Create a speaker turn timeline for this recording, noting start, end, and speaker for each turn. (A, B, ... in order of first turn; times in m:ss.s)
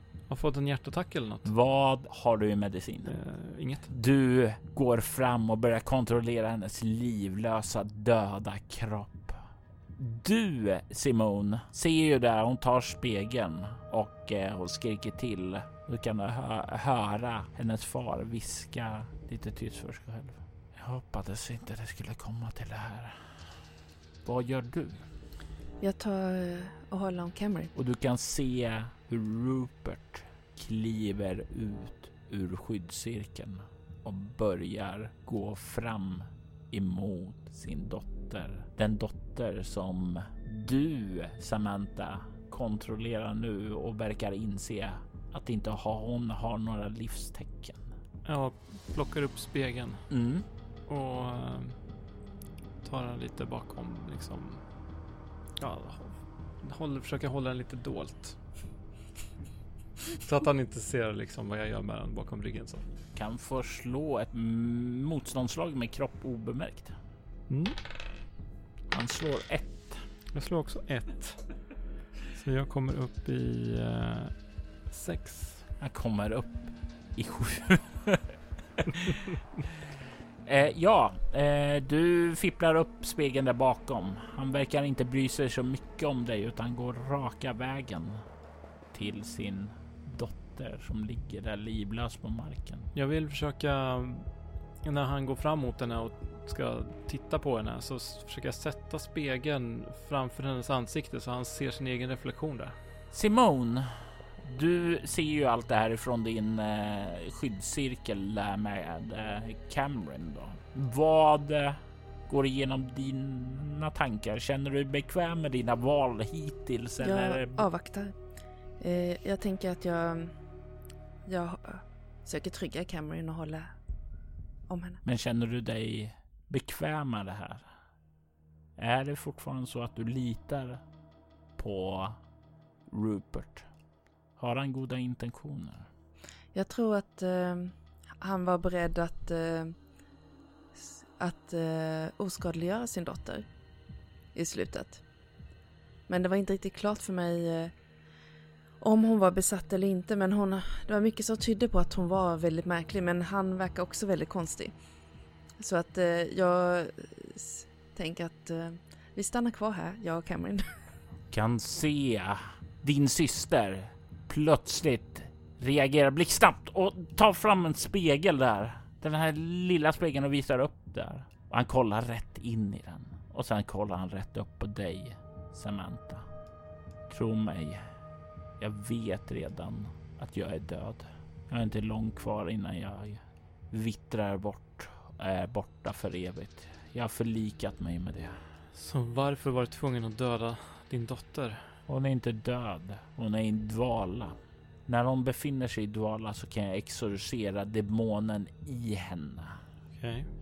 0:00.3-0:01.5 A
0:01.4-0:03.2 B
0:03.1-0:03.9 A
0:03.9-0:09.4 B
0:10.0-0:23.5 B
0:24.2-0:25.1 B
0:25.8-0:27.7 C
0:27.8-0:47.9 B
0:48.2-0:50.1 A
0:50.1-0:50.5 B
0:50.9-0:51.8 A
0:52.8-0:54.6 A
0:55.6-0:58.4 A
1:00.1-1:02.8 A
1:03.2-1:07.0 B
1:07.5-1:07.8 A
1:08.9-1:10.1 B
1:10.3-1:11.6 A
1:12.3-1:14.4 A
1:14.9-1:15.7 A
1:15.8-1:19.2 B
1:20.4-1:28.2 B
1:28.9-1:32.9 B
1:33.0-1:34.3 A
1:34.8-1:42.8 A
1:43.1-1:57.6 B
1:57.0-1:58.2 C
1:58.8-2:00.3 C
2:01.3-2:03.7 C
2:04.7-2:05.0 C
2:05.0-2:07.7 B
2:08.8-2:10.8 B
2:11.6-2:12.2 B
2:12.9-2:13.7 B
2:14.4-2:15.9 B
2:16.5-2:19.8 C
2:20.8-2:23.5 C
2:24.4-2:25.0 C
2:26.1-2:27.7 C
2:28.8-2:34.8 C
2:35.6-2:40.7 C
2:41.3-2:56.3 B
2:57.1-2:57.9 B
2:58.6-3:08.4 B
3:08.8-3:11.7 A
3:11.9-3:14.4 B
3:14.9-3:19.6 B
3:20.0-3:20.3 A